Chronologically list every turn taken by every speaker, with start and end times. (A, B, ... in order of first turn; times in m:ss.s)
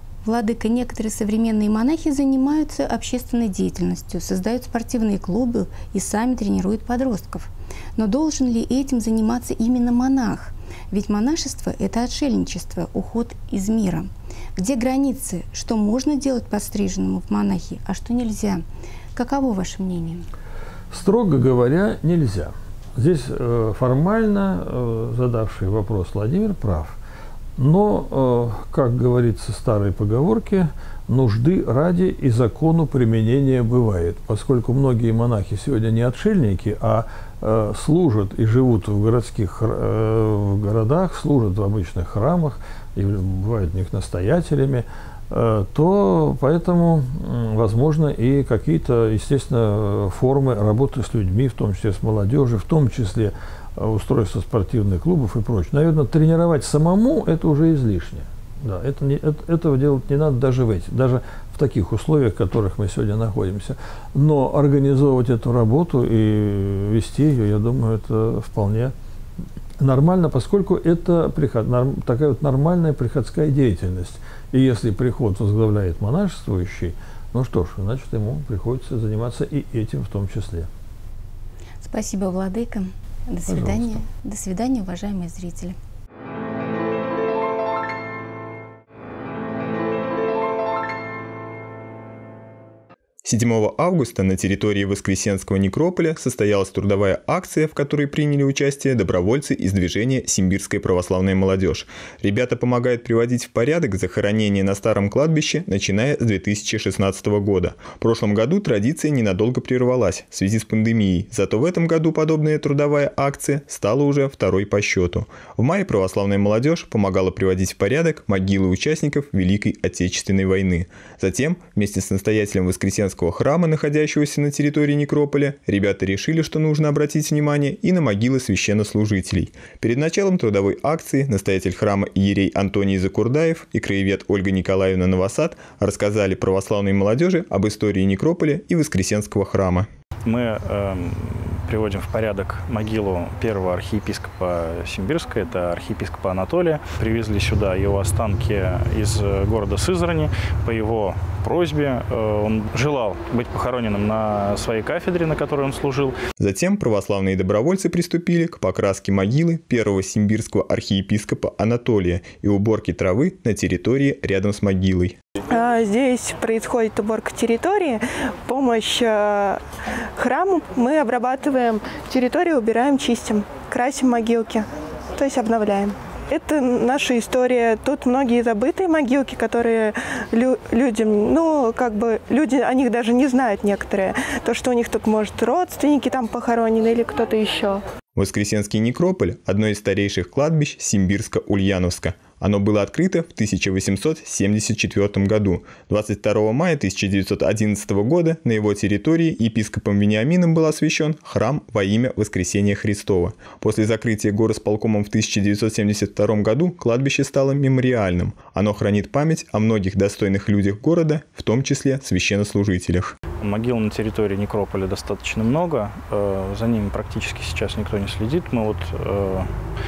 0:00.2-0:20.3 A
0:20.9-0:27.0 B
0:27.6-1:08.9 B
1:09.8-1:20.7 B
1:21.8-1:25.8 A
1:23.5-1:24.0 B
1:33.2-2:19.9 C
2:20.3-2:36.2 D
2:36.4-2:45.2 C
2:45.5-2:49.6 E
2:50.2-2:54.6 E
2:55.2-3:07.8 E
3:08.2-3:33.1 C
3:33.4-3:39.5 D